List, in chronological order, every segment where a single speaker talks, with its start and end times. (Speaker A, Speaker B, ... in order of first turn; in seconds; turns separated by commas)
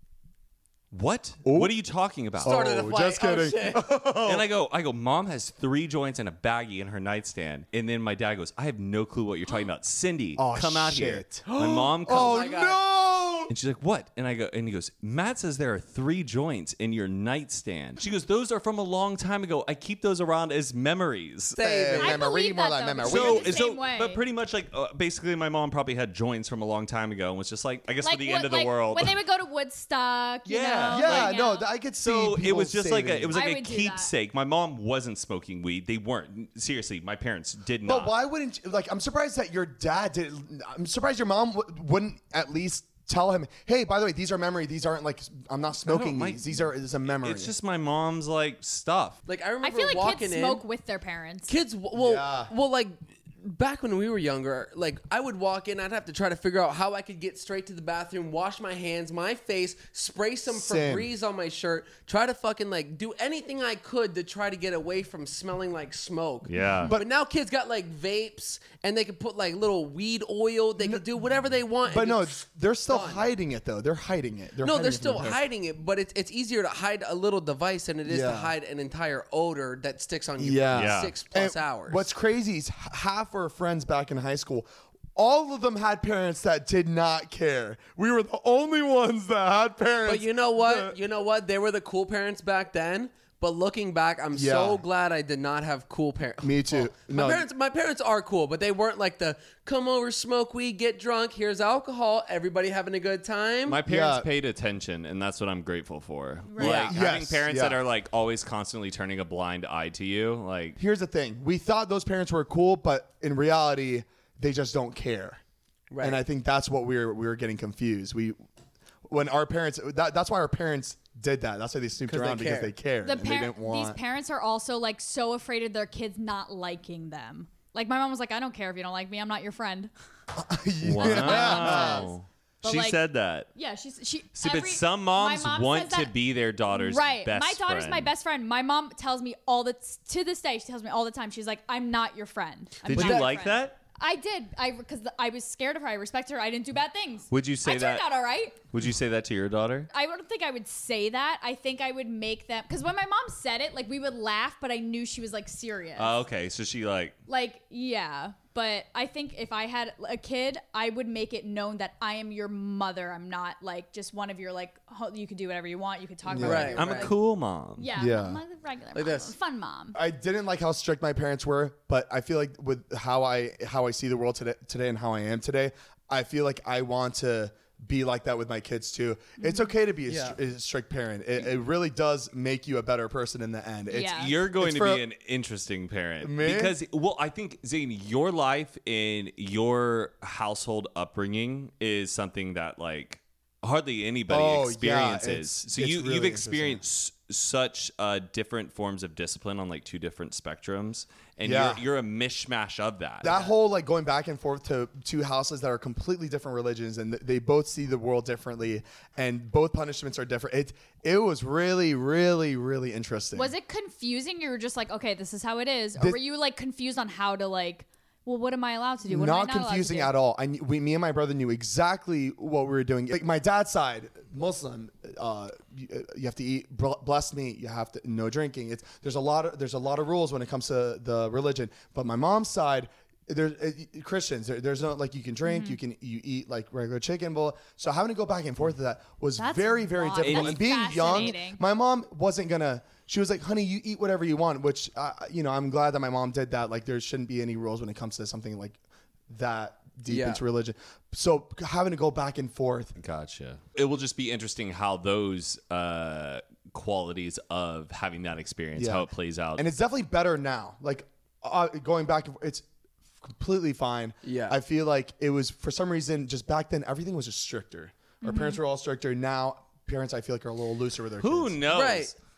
Speaker A: 0.9-2.7, Speaker B: 1.4-1.8, Speaker B: 2.4-4.5, Speaker C: 2.4-3.9, Speaker A: 4.2-12.5, Speaker B: 10.4-11.4, Speaker C: 11.5-12.8, Speaker B: 12.1-13.5, Speaker A: 13.5-21.6, Speaker C: 21.6-22.2, Speaker B: 21.6-23.6, Speaker D: 22.0-24.2, Speaker A: 23.0-29.2, Speaker D: 28.0-31.7, Speaker A: 30.5-31.4, Speaker B: 30.9-33.4, Speaker A: 32.0-38.1, Speaker D: 33.3-34.1, Speaker B: 37.9-47.5, Speaker A: 45.9-49.2, Speaker C: 49.3-50.6, Speaker D: 49.6-51.5, Speaker C: 51.5-73.3, Speaker B: 52.0-52.5, Speaker B: 60.5-61.1, Speaker A: 66.5-66.9, Speaker B: 70.8-71.0, Speaker B: 71.9-75.4, Speaker C: 74.6-82.1, Speaker B: 78.0-78.5, Speaker B: 80.4-91.0, Speaker A: 80.7-81.1, Speaker C: 90.0-103.8, Speaker B: 94.3-94.8, Speaker B: 96.4-97.5, Speaker A: 103.7-110.8, Speaker B: 103.9-104.3, Speaker D: 106.5-106.8, Speaker B: 106.6-107.8, Speaker C: 106.6-106.9, Speaker B: 110.8-115.4, Speaker C: 115.9-116.2, Speaker B: 116.0-118.4, Speaker B: 119.1-124.0, Speaker C: 122.1-122.7, Speaker D: 123.0-129.9, Speaker B: 130.3-132.1, Speaker A: 130.8-133.5, Speaker D: 131.0-132.1, Speaker D: 132.6-133.0, Speaker D: 133.6-136.2, Speaker A: 134.3-138.1, Speaker D: 136.7-148.6, Speaker A: 142.8-143.8, Speaker C: 142.9-143.3, Speaker A: 147.3-148.1, Speaker A: 148.7-149.9, Speaker D: 149.9-156.2, Speaker A: 156.0-157.2, Speaker D: 157.3-167.1, Speaker B: 166.3-166.8, Speaker C: 166.4-167.1, Speaker A: 166.4-167.9, Speaker D: 167.8-170.0, Speaker B: 168.0-168.4, Speaker C: 168.9-169.3, Speaker B: 169.9-185.0, Speaker D: 179.4-179.7, Speaker C: 180.1-180.4, Speaker D: 183.9-184.4, Speaker A: 184.1-203.3, Speaker B: 186.2-186.8, Speaker B: 194.3-196.8, Speaker B: 201.4-201.8, Speaker B: 203.2-213.5, Speaker C: 203.2-203.5, Speaker D: 213.3-220.1, Speaker B: 219.1-248.8, Speaker D: 235.4-235.8, Speaker D: 239.4-241.6, Speaker A: 240.2-241.3, Speaker B: 249.3-252.9, Speaker C: 250.1-250.4, Speaker A: 253.0-259.6, Speaker B: 258.8-262.6, Speaker B: 263.2-271.6, Speaker C: 264.2-264.6, Speaker D: 268.2-268.6, Speaker A: 271.2-272.1, Speaker C: 271.7-272.1